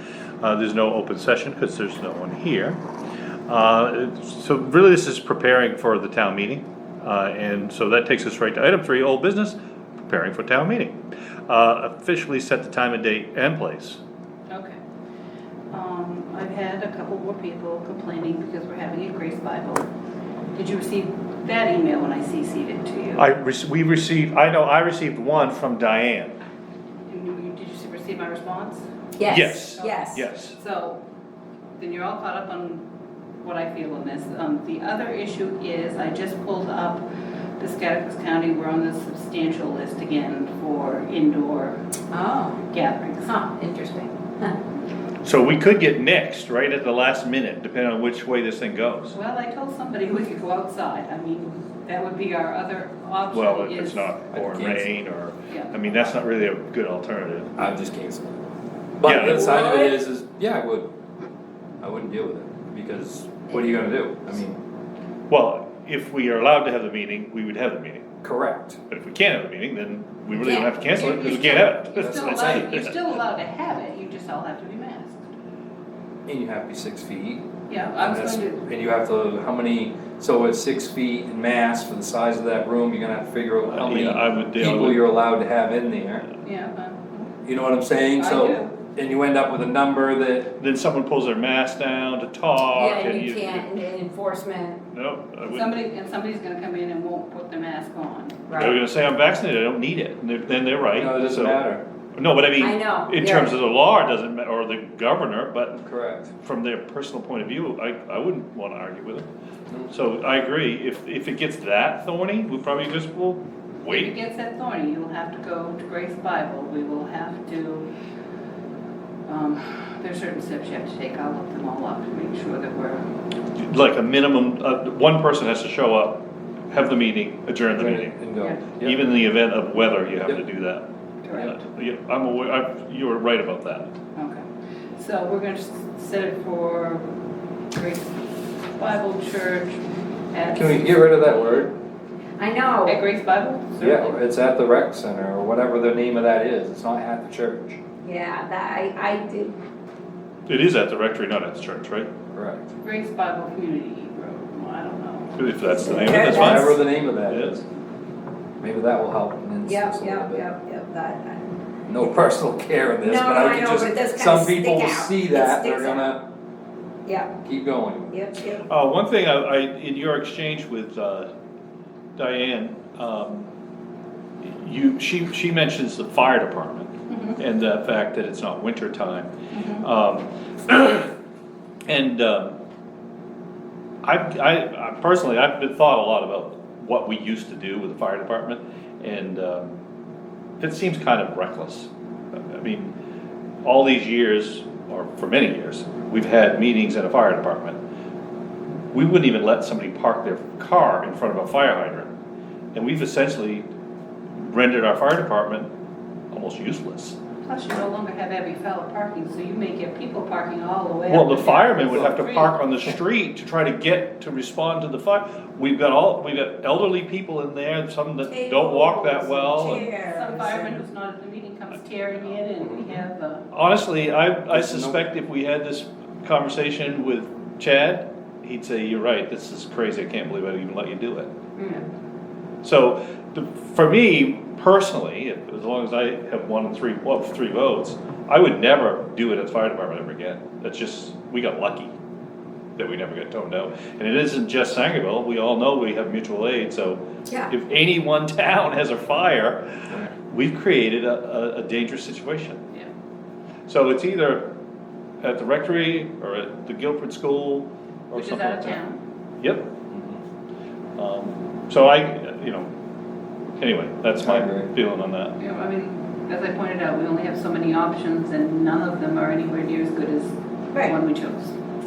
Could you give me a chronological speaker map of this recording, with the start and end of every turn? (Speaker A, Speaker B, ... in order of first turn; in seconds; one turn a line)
Speaker A: 0.4-2.8
Speaker A: 3.5-14.0
Speaker B: 14.5-14.8
Speaker B: 15.7-19.9
Speaker B: 20.5-23.2
Speaker A: 23.2-26.4
Speaker B: 27.1-28.8
Speaker C: 29.2-30.2
Speaker A: 29.2-30.6
Speaker B: 29.6-31.0
Speaker B: 31.8-32.8
Speaker B: 33.4-37.0
Speaker B: 37.6-41.8
Speaker C: 42.1-42.6
Speaker B: 42.6-43.4
Speaker C: 43.3-44.5
Speaker A: 45.2-49.1
Speaker B: 49.1-54.1
Speaker A: 53.3-57.5
Speaker D: 54.3-54.9
Speaker B: 55.5-55.8
Speaker D: 57.5-58.4
Speaker D: 59.0-60.9
Speaker A: 59.0-59.6
Speaker C: 59.1-60.0
Speaker D: 61.8-64.6
Speaker A: 65.3-68.0
Speaker D: 68.2-68.8
Speaker A: 68.9-73.0
Speaker B: 70.4-75.2
Speaker D: 70.9-72.7
Speaker D: 76.2-77.5
Speaker B: 77.7-78.6
Speaker D: 78.0-86.3
Speaker A: 83.7-85.1
Speaker B: 86.4-87.3
Speaker D: 87.5-90.5
Speaker B: 88.2-88.7
Speaker A: 90.6-93.7
Speaker C: 92.7-94.8
Speaker A: 94.9-95.7
Speaker B: 95.5-98.5
Speaker C: 98.5-98.8
Speaker A: 98.5-101.6
Speaker D: 100.9-101.8
Speaker A: 102.2-105.8
Speaker C: 102.6-103.5
Speaker D: 105.7-106.3
Speaker A: 106.4-109.3
Speaker A: 109.9-114.1
Speaker B: 113.9-117.9
Speaker B: 119.3-123.1
Speaker A: 123.5-128.2
Speaker D: 127.8-129.1
Speaker A: 128.8-133.9
Speaker B: 131.2-131.6
Speaker B: 134.2-137.2
Speaker B: 137.7-138.2
Speaker B: 138.7-139.8
Speaker B: 140.3-141.7
Speaker D: 140.5-141.7
Speaker C: 142.4-143.0
Speaker B: 142.8-144.2
Speaker D: 143.8-147.8
Speaker C: 148.0-149.6
Speaker A: 150.5-152.1
Speaker D: 152.3-152.7
Speaker B: 152.8-155.4
Speaker A: 155.3-157.6
Speaker C: 155.6-156.8
Speaker D: 155.9-157.6
Speaker D: 158.6-160.5
Speaker C: 159.6-161.5
Speaker D: 161.9-166.2
Speaker C: 163.0-166.1
Speaker C: 167.1-167.3
Speaker D: 167.4-168.2
Speaker C: 168.1-168.6
Speaker A: 168.6-171.3
Speaker A: 172.2-173.5
Speaker A: 174.4-181.1
Speaker B: 177.1-177.4
Speaker B: 179.5-179.8
Speaker A: 181.9-182.6
Speaker A: 184.0-189.8
Speaker A: 190.6-191.9
Speaker A: 192.5-192.9
Speaker A: 193.6-197.8
Speaker A: 198.9-202.1
Speaker A: 202.7-203.7
Speaker A: 204.4-205.7
Speaker A: 206.3-207.2
Speaker B: 207.4-212.6
Speaker A: 211.1-219.8
Speaker C: 218.2-220.8
Speaker B: 219.6-223.4
Speaker D: 222.6-222.9
Speaker A: 223.5-231.3
Speaker D: 224.5-225.0
Speaker B: 231.6-231.8
Speaker A: 232.6-241.9
Speaker A: 242.8-252.6
Speaker A: 253.7-254.5
Speaker A: 255.2-258.8
Speaker B: 258.1-259.0
Speaker A: 259.4-259.7
Speaker D: 259.9-260.2
Speaker A: 260.9-262.7
Speaker A: 263.6-265.3
Speaker D: 264.2-264.7
Speaker B: 265.4-271.5